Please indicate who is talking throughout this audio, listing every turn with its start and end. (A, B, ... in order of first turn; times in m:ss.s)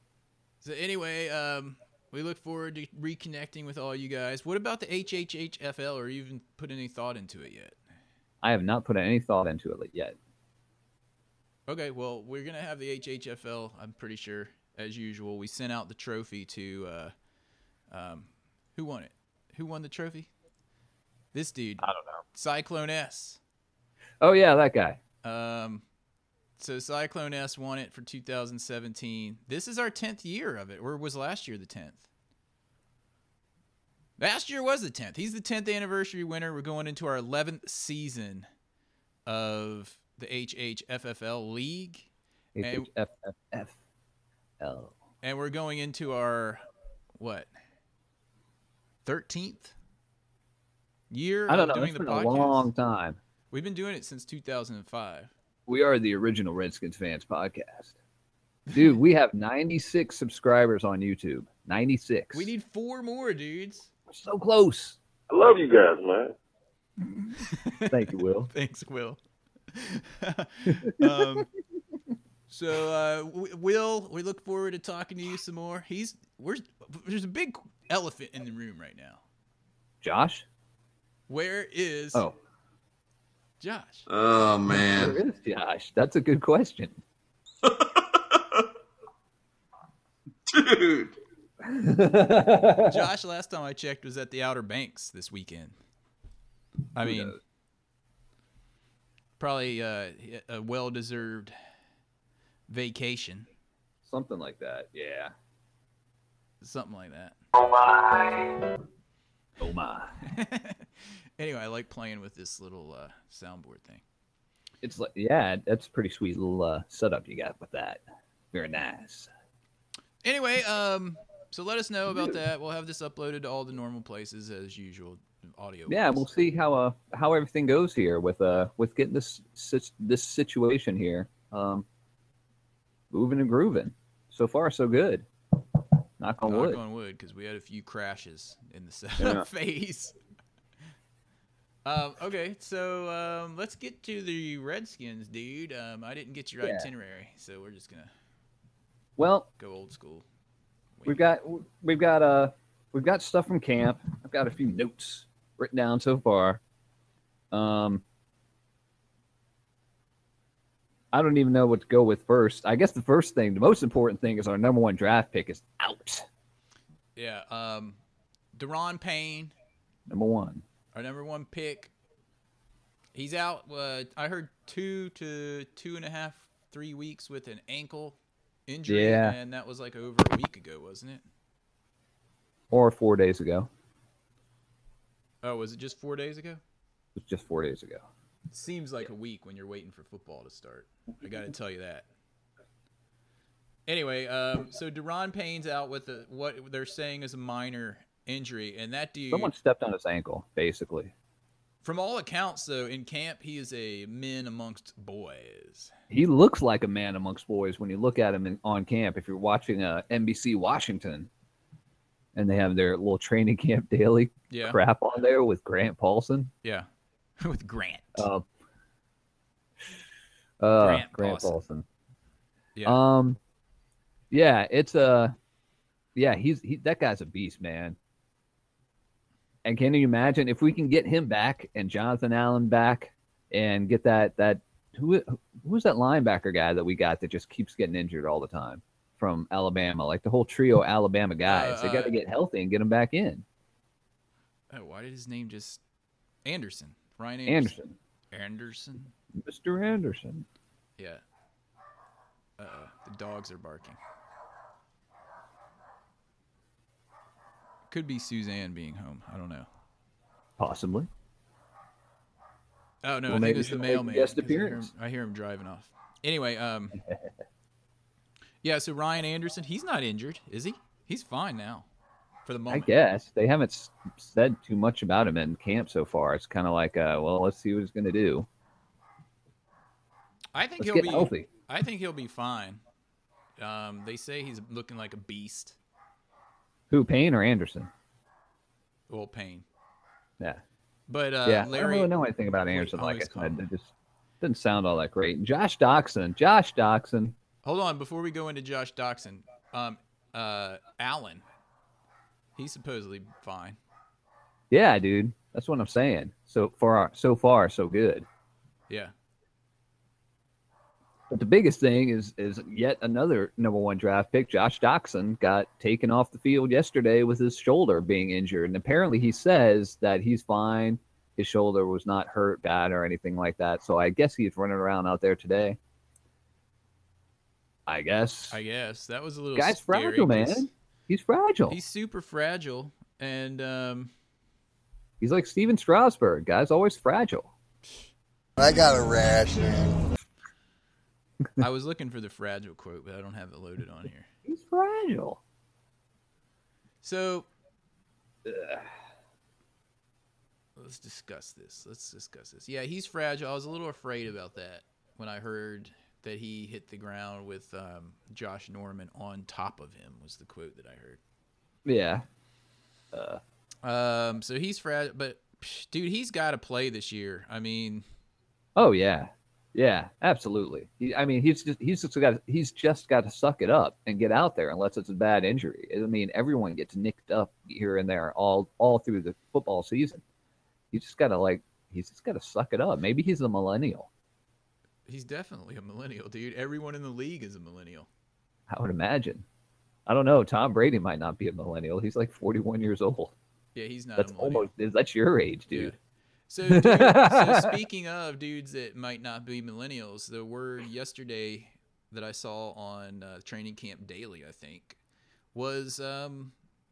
0:00.6-0:07.8 A
0:08.4-0:10.2 B
0:11.7-0:17.1 A
0:17.9-0:20.3 A
0:21.3-0:23.4 A
0:21.8-0:22.2 B
0:24.2-0:25.0 B
0:25.2-0:25.8 A
0:26.6-0:32.1 A
0:34.2-0:38.5 A
0:39.3-0:42.1 A
0:42.6-0:43.8 B
0:42.6-0:42.9 A
0:44.6-0:45.0 B
0:45.2-0:46.6 A
0:47.2-0:47.5 A
0:49.0-0:49.8 A
0:51.1-0:52.7 A
0:51.5-0:53.2 B
0:53.5-0:55.3 A
0:55.7-0:57.9 B
0:58.7-1:02.5 B
1:02.3-1:03.9 A
1:04.1-1:05.0 B
1:05.3-1:06.3 C
1:07.4-1:09.2 A
1:07.9-1:08.5 B
1:09.7-1:11.5 A
1:10.7-1:11.4 B
1:12.5-1:19.2 A
1:20.0-1:20.4 B
1:21.3-1:22.3 A
1:23.6-1:24.1 A
1:24.1-1:25.2 C
1:24.8-1:27.0 B
1:27.6-1:28.2 C
1:30.5-1:31.1 C
1:31.6-1:33.0 B
1:32.8-1:35.7 A
1:37.0-1:37.4 A
1:37.0-1:37.4 B
1:39.4-1:41.5 A
1:42.7-1:43.5 A
1:44.0-1:45.3 B
1:46.6-1:47.4 A
1:49.6-1:50.1 B
1:50.2-1:54.0 A
1:54.8-1:58.0 B
1:58.5-1:59.3 B
2:00.2-2:06.3 A
2:02.1-2:02.4 B
2:05.9-2:11.9 B
2:13.1-2:15.3 B
2:16.2-2:16.8 B
2:16.4-2:20.2 A
2:19.2-2:19.4 B
2:21.9-2:28.1 A
2:26.6-2:26.9 B
2:29.2-2:29.5 B
2:29.6-2:30.3 A
2:31.1-2:36.6 B
2:37.5-2:38.0 B
2:41.1-2:46.3 B
2:47.2-2:48.0 A
2:48.6-2:49.5 A
2:50.1-2:50.6 B
2:50.9-2:51.9 A
2:53.2-3:01.2 A
2:58.9-2:59.4 B
3:02.7-3:03.7 B
3:05.4-3:06.6 A
3:07.2-3:08.0 B
3:08.5-3:12.1 A
3:13.9-3:19.5 A
3:19.3-3:21.1 B
3:21.8-3:25.9 A
3:26.1-3:31.3 B
3:32.4-3:36.5 B
3:34.5-3:34.8 A
3:37.4-3:38.3 A
3:38.2-3:38.5 B
3:40.6-3:41.8 B
3:40.8-3:41.6 A
3:42.8-3:43.0 A
3:42.8-3:43.4 B
3:44.3-3:45.3 B
3:46.2-3:48.0 B
3:49.6-4:03.4 B
4:01.5-4:02.2 A
4:04.7-4:05.8 A
4:06.4-4:07.7 A
4:07.5-4:08.0 B
4:08.3-4:09.1 A
4:09.4-4:10.5 B
4:12.6-4:14.0 A
4:17.9-4:19.7 A
4:20.6-4:21.1 B
4:23.0-4:27.0 A
4:23.3-4:24.9 B
4:28.6-4:31.9 A
4:32.5-4:32.9 A
4:32.7-4:38.5 B
4:40.5-4:42.8 A
4:40.8-4:41.5 B
4:43.6-4:45.8 A
4:46.9-4:47.9 B
4:49.1-4:49.7 A
4:51.1-4:52.1 A
4:51.5-4:53.9 B
4:52.7-4:53.7 A
4:54.4-4:57.4 B
4:57.6-5:01.4 A
5:02.6-5:03.8 A
5:04.7-5:08.3 B
5:11.3-5:25.8 B
5:27.9-5:28.6 B
5:28.5-5:30.7 A
5:29.6-5:31.8 B
5:31.7-5:34.1 A
5:35.2-5:37.5 B
5:38.6-5:40.0 C
5:41.6-5:44.3 A
5:44.5-5:45.4 B
5:47.0-5:47.5 A
5:48.4-5:48.9 B
5:50.8-6:01.2 A
6:01.9-6:02.2 B
6:03.1-6:03.4 B
6:03.8-6:08.0 A
6:08.8-6:20.2 B
6:20.9-6:24.1 B
6:25.1-6:28.1 A
6:28.7-6:29.4 B
6:30.1-6:33.3 B
6:33.8-6:34.7 A
6:34.2-6:35.9 B
6:35.7-6:36.0 A
6:36.5-6:45.0 A
6:36.7-6:37.8 B
6:45.5-6:46.5 A